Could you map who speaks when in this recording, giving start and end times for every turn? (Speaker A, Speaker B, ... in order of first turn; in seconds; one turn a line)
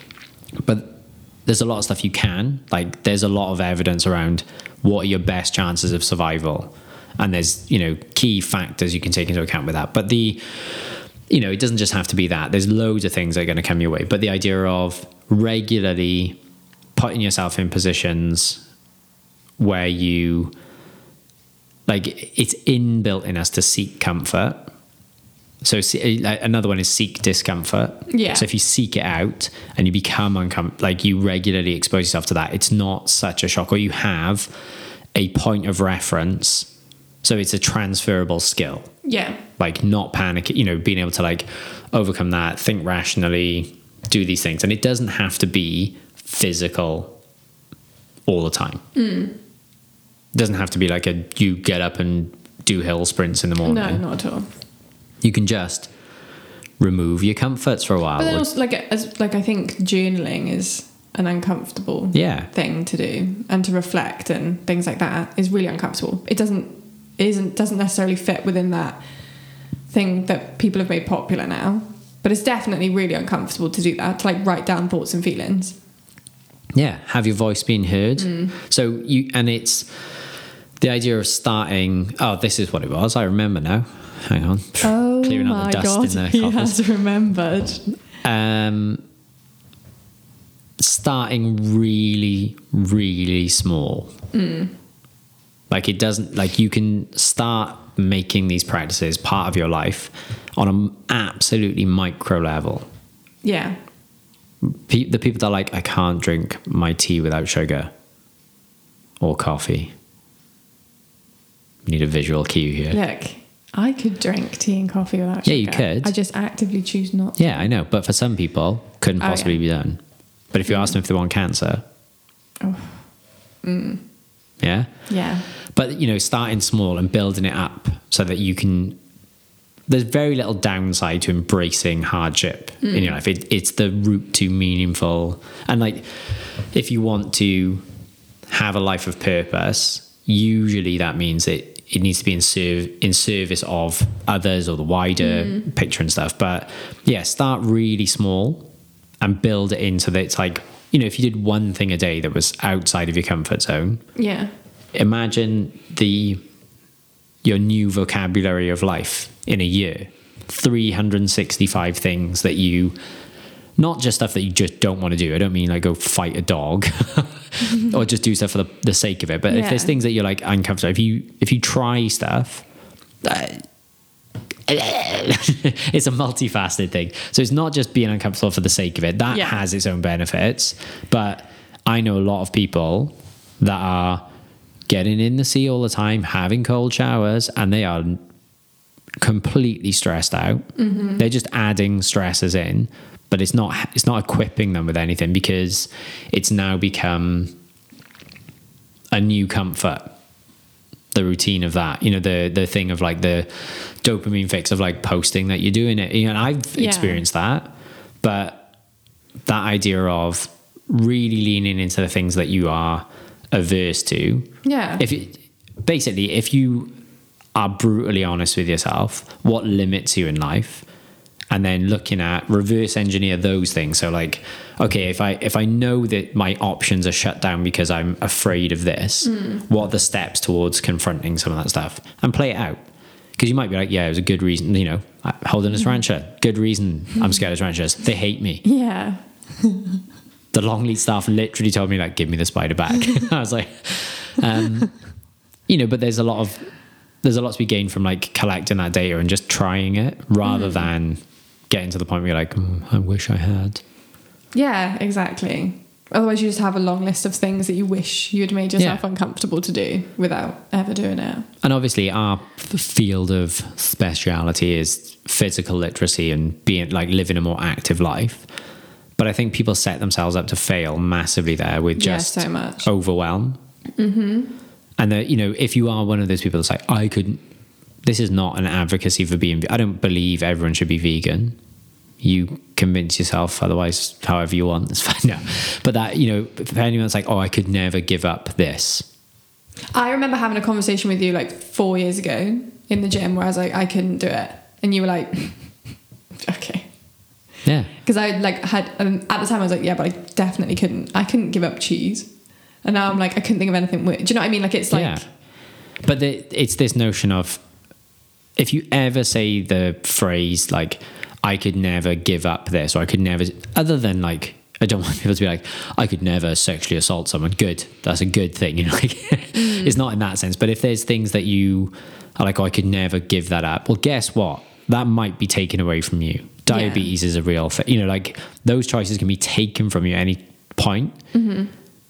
Speaker A: 0.6-16.4
Speaker A: 16.9-18.6
Speaker A: 19.6-20.5
Speaker A: 21.9-24.7
Speaker A: 25.6-34.5
Speaker B: 28.1-28.5
Speaker A: 35.1-36.7
Speaker A: 37.2-38.9
Speaker B: 39.0-39.4
Speaker A: 39.6-47.1
Speaker A: 48.3-48.8
Speaker B: 48.9-49.4
Speaker A: 50.3-54.0
Speaker B: 53.6-54.5
Speaker A: 55.2-55.9
Speaker A: 56.8-58.5
Speaker B: 58.2-69.0
Speaker A: 62.1-62.5
Speaker B: 69.9-75.8
Speaker A: 76.7-79.9
Speaker B: 78.2-78.5
Speaker A: 80.8-86.8
Speaker B: 84.8-87.8
Speaker A: 88.2-89.0
Speaker A: 90.8-94.1
Speaker B: 94.3-94.7
Speaker A: 95.7-102.9
Speaker B: 103.4-103.8
Speaker A: 104.6-107.9
Speaker A: 109.2-109.9
Speaker A: 111.8-113.0
Speaker B: 112.9-117.7
Speaker A: 115.4-116.1
Speaker A: 117.4-120.0
Speaker B: 119.2-119.6
Speaker A: 120.5-121.8
Speaker B: 120.7-121.0
Speaker B: 122.6-123.0
Speaker B: 123.6-124.0
Speaker A: 124.6-124.9
Speaker B: 125.1-125.5
Speaker A: 125.7-129.0
Speaker A: 129.9-137.8
Speaker B: 132.8-133.2
Speaker A: 138.5-148.7
Speaker B: 145.2-145.7
Speaker A: 149.2-154.0
Speaker B: 154.2-154.5
Speaker A: 154.9-156.4
Speaker A: 157.4-162.9
Speaker A: 163.8-172.6
Speaker B: 169.5-169.9
Speaker A: 173.2-173.7
Speaker A: 174.7-184.2
Speaker B: 179.3-179.6
Speaker A: 184.9-188.2
Speaker A: 189.2-197.5
Speaker B: 190.8-191.2
Speaker A: 199.1-200.2
Speaker A: 201.1-208.7
Speaker B: 206.7-207.2
Speaker A: 209.4-216.9
Speaker B: 214.6-215.0
Speaker A: 217.5-220.8
Speaker A: 221.5-232.8
Speaker B: 229.3-229.6
Speaker A: 233.4-238.6
Speaker B: 238.6-240.0
Speaker A: 240.5-244.9
Speaker A: 245.7-246.7
Speaker A: 247.2-253.8
Speaker B: 250.4-250.9
Speaker B: 254.5-261.5
Speaker A: 261.6-268.4
Speaker A: 269.2-273.6
Speaker B: 271.9-272.9
Speaker B: 274.0-274.5
Speaker A: 275.0-277.4
Speaker A: 278.0-281.6
Speaker A: 282.2-289.1
Speaker B: 289.9-295.7
Speaker B: 296.3-296.9
Speaker A: 297.6-297.9
Speaker B: 298.0-302.3
Speaker B: 302.8-305.2
Speaker A: 304.9-305.3
Speaker A: 306.0-307.6
Speaker A: 308.6-331.2
Speaker B: 319.5-320.0
Speaker B: 326.7-327.1
Speaker B: 331.3-331.7